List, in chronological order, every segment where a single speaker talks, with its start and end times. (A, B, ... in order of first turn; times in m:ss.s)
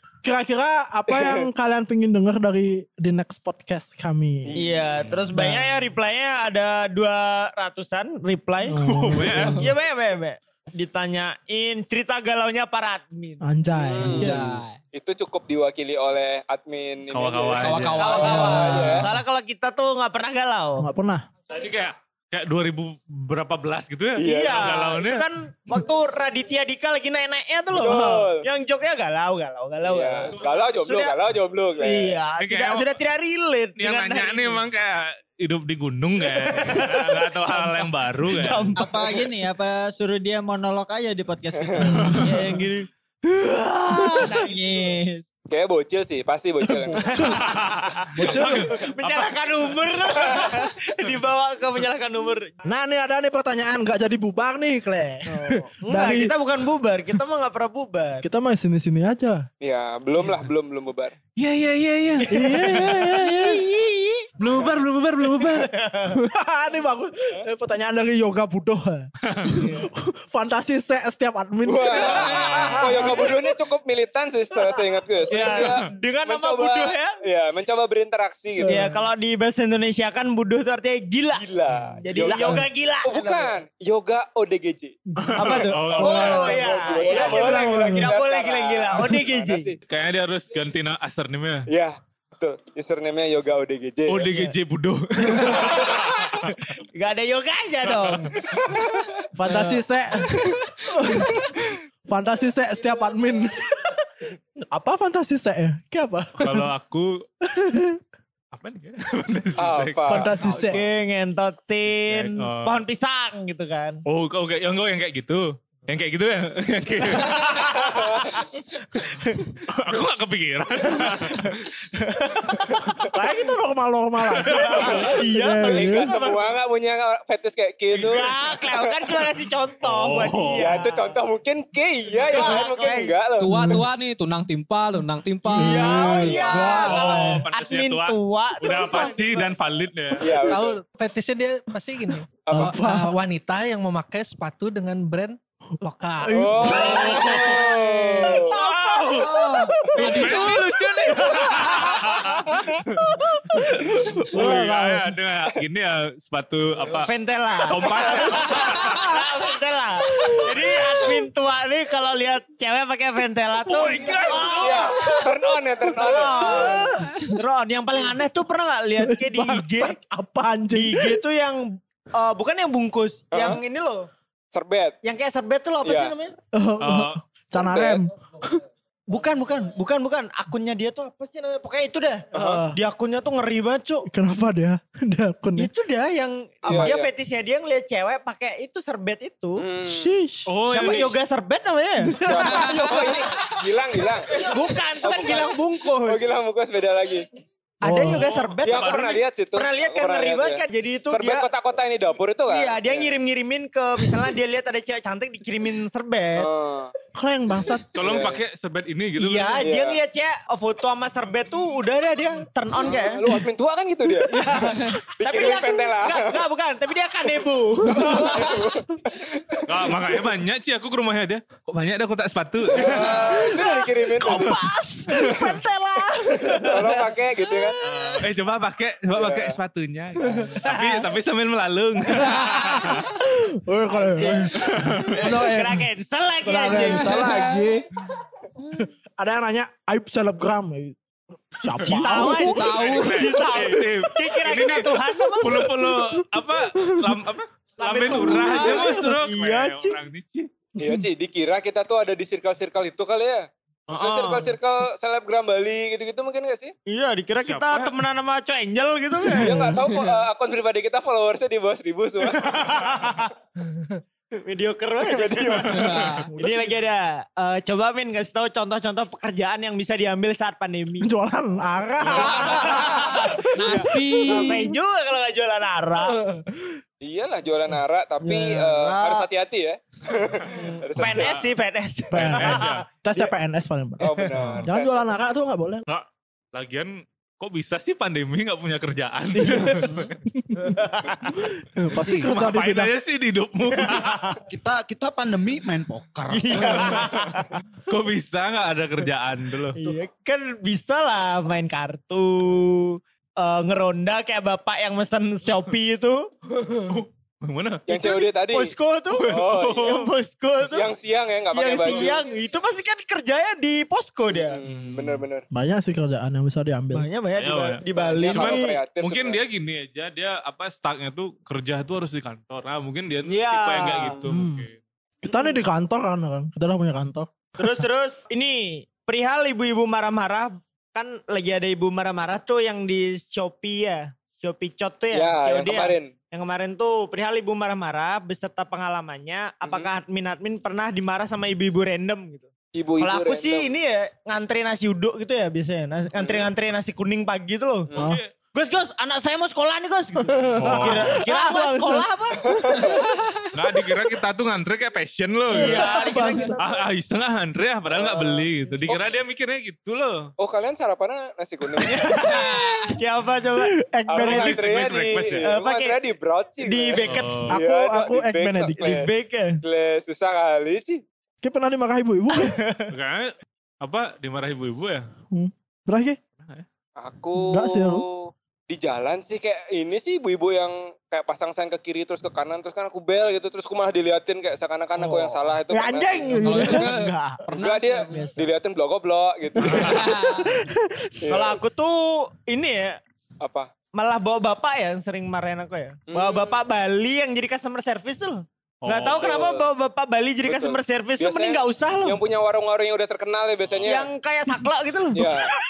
0:00.2-0:04.7 A
0:01.1-0:01.4 B
0:04.4-0:04.8 B
0:04.6-0:08.8 C
0:05.0-0:05.3 D
0:05.3-0:05.8 A
0:08.7-0:09.7 A
0:08.8-0:09.7 D
0:09.5-0:14.2 C
0:13.4-0:14.6 A
0:13.9-0:14.4 B
0:14.1-0:14.7 E
0:14.9-0:19.1 B
0:17.1-0:18.5 D
0:17.6-0:19.1 E
0:18.0-0:20.9 C
0:20.8-0:21.3 A
0:21.5-0:25.2 D
0:24.2-0:24.8 B
0:24.2-0:31.2 C
0:27.7-0:28.4 B
0:29.8-0:32.2 B
0:31.8-0:34.6 C
0:32.4-0:33.0 D
0:33.8-0:38.8 D
0:36.2-0:39.2 C
0:38.8-0:39.9 F
0:39.0-0:42.0 G
0:40.5-0:41.2 F
0:41.6-0:41.9 B
0:41.8-0:42.3 D
0:42.2-0:44.5 C
0:44.0-0:45.2 G
0:45.5-0:47.2 B
0:46.6-0:47.5 A
0:47.0-0:52.5 C
0:47.2-0:49.7 D
0:48.2-0:48.7 A
0:50.3-0:50.6 D
0:52.6-0:56.3 A
0:55.3-0:58.2 C
0:58.2-0:59.4 A
0:59.6-1:01.2 B
1:01.4-1:02.8 D
1:02.2-1:03.1 C
1:02.3-1:03.6 A
1:04.4-1:05.7 D
1:05.3-1:06.1 C
1:06.1-1:13.3 A
1:09.2-1:09.6 D
1:11.6-1:18.7 B
1:12.5-1:12.8 D
1:12.6-1:13.3 C
1:15.3-1:17.1 C
1:15.4-1:15.8 D
1:18.6-1:19.0 A
1:18.6-1:21.4 C
1:21.3-1:25.0 B
1:22.0-1:23.5 C
1:22.2-1:22.6 A
1:25.2-1:26.5 D
1:25.2-1:28.1 A
1:25.4-1:29.7 C
1:26.0-1:29.8 B
1:29.9-1:31.7 D
1:31.7-1:34.3 B
1:34.1-1:36.6 D
1:35.3-1:36.0 C
1:36.8-1:38.4 C
1:37.9-1:38.4 D
1:38.5-1:39.1 B
1:39.3-1:41.4 A
1:42.1-1:44.0 A
1:44.7-1:46.7 A
1:46.4-1:47.2 D
1:47.5-1:48.0 A
1:48.5-1:50.8 D
1:49.6-1:50.3 B
1:50.1-1:50.8 A
1:50.4-1:54.0 C
1:51.9-1:52.8 D
1:54.1-1:57.8 D
1:57.2-1:58.4 C
1:57.4-1:58.3 B
1:59.0-1:59.5 C
1:59.7-2:01.5 D
2:00.9-2:02.8 C
2:03.0-2:06.1 A
2:04.4-2:06.4 C
2:04.5-2:04.9 D
2:05.6-2:08.8 B
2:08.0-2:11.1 C
2:09.8-2:10.7 D
2:10.6-2:13.7 B
2:12.2-2:13.1 C
2:13.4-2:16.6 E
2:13.5-2:13.9 A
2:15.5-2:19.5 C
2:15.5-2:17.4 A
2:16.2-2:16.7 B
2:16.5-2:20.3 D
2:20.2-2:20.8 B
2:20.4-2:26.7 H
2:22.5-2:22.8 B
2:22.5-2:23.2 A
2:26.2-2:32.2 A
2:26.3-2:28.6 B
2:26.8-2:27.9 D
2:28.5-2:37.1 D
2:30.0-2:30.6 E
2:33.0-2:35.2 A
2:37.0-2:45.1 C
2:37.6-2:39.2 D
2:37.8-2:38.5 B
2:40.2-2:41.1 D
2:43.6-2:45.2 D
2:44.5-2:46.9 B
2:45.9-2:50.0 C
2:46.1-2:47.3 A
2:49.0-2:51.2 A
2:50.7-2:54.1 C
2:53.3-2:53.6 B
2:54.5-2:55.0 B
2:55.0-2:56.3 C
2:55.8-2:56.1 B
2:56.5-2:58.6 A
2:56.8-2:57.2 D
2:57.5-2:58.0 B
2:59.1-3:04.1 C
3:02.3-3:02.8 A
3:02.3-3:02.6 B
3:04.0-3:05.7 A
3:05.6-3:09.6 C
3:06.6-3:07.1 B
3:09.6-3:10.1 B
3:09.8-3:10.5 A
3:10.4-3:11.2 D
3:10.7-3:13.2 C
3:12.0-3:13.1 A
3:12.2-3:14.4 B
3:14.4-3:16.2 C
3:15.0-3:17.3 B
3:17.8-3:19.0 C
3:17.8-3:18.3 A
3:18.6-3:23.1 B
3:18.6-3:19.2 D
3:19.5-3:21.4 C
3:22.5-3:26.5 C
3:26.4-3:26.9 B
3:27.1-3:28.2 A
3:27.9-3:29.7 D
3:27.9-3:28.4 B
3:29.2-3:33.2 C
3:29.6-3:30.0 B
3:32.8-3:34.4 B
3:34.3-3:38.6 C
3:34.5-3:34.9 A
3:35.2-3:36.4 B
3:37.9-3:40.0 B
3:39.7-3:43.3 D
3:42.7-3:44.5 B
3:42.8-3:48.3 A
3:46.4-3:46.7 C
3:46.6-3:47.8 B
3:47.8-3:53.2 D
3:49.1-3:49.6 B
3:50.4-3:50.8 A
3:52.1-3:55.8 A
3:53.9-3:57.4 C
3:54.6-3:55.3 D
3:56.4-3:57.9 A
3:56.8-3:57.5 E
3:58.8-4:01.0 A
4:01.5-4:02.8 A
4:01.8-4:05.7 C
4:02.1-4:03.4 E
4:02.7-4:10.5 D
4:03.6-4:04.1 A
4:04.9-4:07.2 A
4:07.8-4:10.0 C
4:08.2-4:09.0 A
4:10.8-4:11.1 A
4:10.8-4:16.7 B
4:13.9-4:14.5 C
4:16.9-4:19.7 C
4:17.4-4:18.0 D
4:19.4-4:22.6 B
4:19.5-4:20.1 E
4:22.3-4:23.3 C
4:24.4-4:31.1 C
4:25.0-4:26.1 B
4:25.7-4:26.3 E
4:26.3-4:26.8 A
4:31.0-4:34.7 A
4:32.2-4:36.2 C
4:32.4-4:32.6 E
4:33.5-4:34.6 E
4:36.1-4:36.6 A
4:37.0-4:41.4 B
4:38.2-4:39.2 C
4:40.5-4:43.3 C
4:41.0-4:41.5 D
4:42.1-4:42.9 D
4:42.1-4:45.8 A
4:44.0-4:45.1 B
4:44.3-4:44.7 D
4:45.9-4:50.2 D
4:49.4-4:50.0 C
4:50.4-4:50.7 A
4:50.6-4:51.4 C
4:51.6-4:52.9 A
4:52.0-4:52.3 F
4:52.2-4:54.2 D
4:53.7-4:54.4 C
4:54.5-4:56.8 F
4:56.3-4:57.6 C
4:56.6-4:59.8 D
4:59.8-5:06.3 C
5:06.7-5:08.2 D
5:07.9-5:08.7 B
5:07.9-5:10.9 C
5:09.1-5:10.1 D
5:09.3-5:09.9 B
5:10.6-5:12.2 B
5:11.5-5:14.6 C
5:14.3-5:15.4 B
5:14.6-5:15.2 D
5:15.5-5:17.1 A
5:16.9-5:18.8 C
5:17.4-5:24.8 D
5:18.0-5:19.4 B
5:23.2-5:24.2 C
5:23.8-5:24.2 B
5:24.2-5:24.7 A
5:25.2-5:27.8 A
5:27.6-5:42.5 C
5:35.1-5:36.1 B
5:39.6-5:39.9 B
5:42.7-5:43.7 B
5:43.0-5:47.9 C
5:46.2-5:46.5 B
5:47.9-5:48.2 B
5:48.0-5:48.3 D
5:48.5-5:52.8 C
5:50.2-5:53.0 A
5:50.5-5:51.2 D
5:52.5-5:53.0 B
5:53.5-6:00.3 D
5:55.5-5:56.5 A
5:55.5-5:56.8 C
5:57.9-5:59.0 B
6:00.4-6:02.3 B
6:01.8-6:03.8 C
6:03.6-6:04.6 A
6:04.1-6:09.1 B
6:04.2-6:05.5 D
6:05.4-6:06.0 C
6:06.6-6:07.4 C
6:07.0-6:07.6 D
6:07.5-6:09.0 A
6:08.8-6:09.6 C
6:09.6-6:11.0 B
6:11.4-6:12.6 A
6:12.3-6:12.9 C
6:12.9-6:15.1 D
6:15.3-6:16.2 A
6:16.4-6:16.6 D
6:17.0-6:26.3 B
6:17.3-6:18.0 A
6:25.0-6:25.4 C
6:25.7-6:27.0 A
6:26.3-6:27.4 C
6:26.4-6:28.3 E
6:27.5-6:30.2 B
6:28.1-6:28.5 C
6:29.6-6:31.4 A
6:29.7-6:30.5 E
6:31.2-6:31.6 B
6:31.3-6:33.0 C
6:33.4-6:33.7 B
6:33.9-6:42.2 C
6:36.1-6:36.6 B
6:38.8-6:39.3 D
6:39.1-6:39.7 B
6:40.4-6:44.1 B
6:43.8-6:45.4 C
6:45.1-6:45.5 B